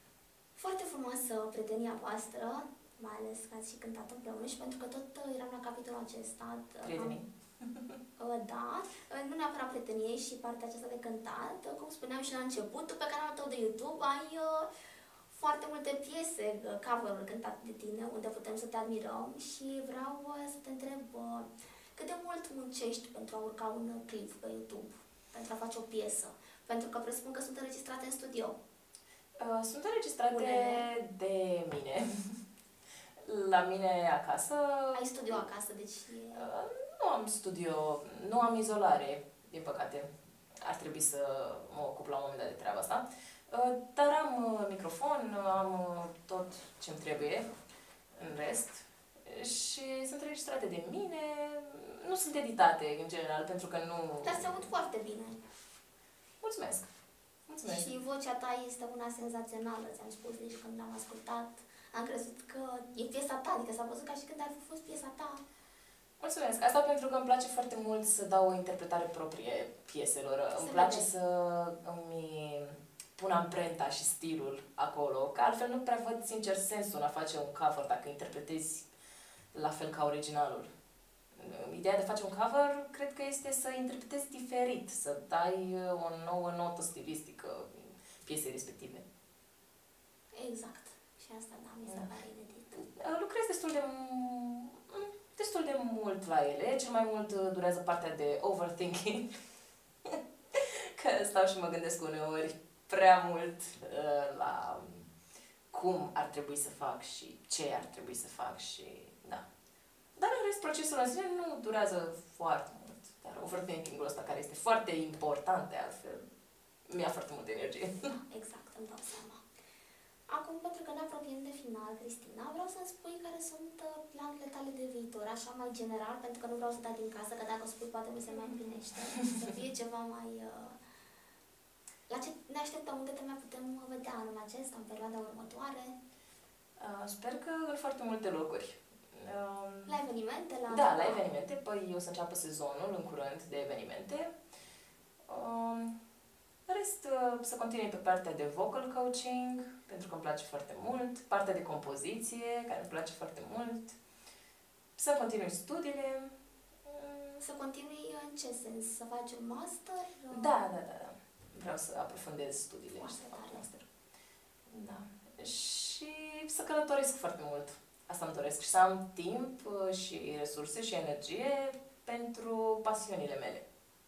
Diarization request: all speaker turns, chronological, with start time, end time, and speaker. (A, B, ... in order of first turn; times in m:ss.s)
0:00.6-0:07.2 A
0:06.8-0:08.0 B
0:08.2-0:14.7 A
0:15.3-0:28.6 A
0:29.4-0:32.3 B
0:30.3-0:30.8 A
0:33.2-0:35.4 B
0:34.9-0:36.5 A
0:36.3-0:47.5 B
0:48.1-0:54.7 B
0:54.2-0:55.4 A
0:56.4-0:56.9 B
0:57.5-0:57.8 B
0:57.6-1:05.4 A
1:06.2-1:18.9 B
1:10.5-1:11.1 A
1:19.5-1:20.7 B
1:21.3-1:29.0 B
1:30.3-1:32.8 A
1:32.7-1:39.3 B
1:40.0-1:45.1 B
1:45.7-1:49.4 B
1:50.2-1:56.2 B
1:56.9-1:58.1 B
1:58.3-1:59.4 A
2:00.3-2:10.8 A
2:08.4-2:09.0 B
2:12.1-2:16.0 A
2:16.8-2:20.0 B
2:19.9-2:21.2 A
2:20.7-2:24.3 B
2:25.3-2:26.0 B
2:26.7-2:34.0 B
2:35.0-2:36.3 B
2:36.8-2:37.4 B
2:37.4-2:40.6 A
2:40.3-2:43.9 B
2:42.9-2:43.6 A
2:44.7-2:53.6 B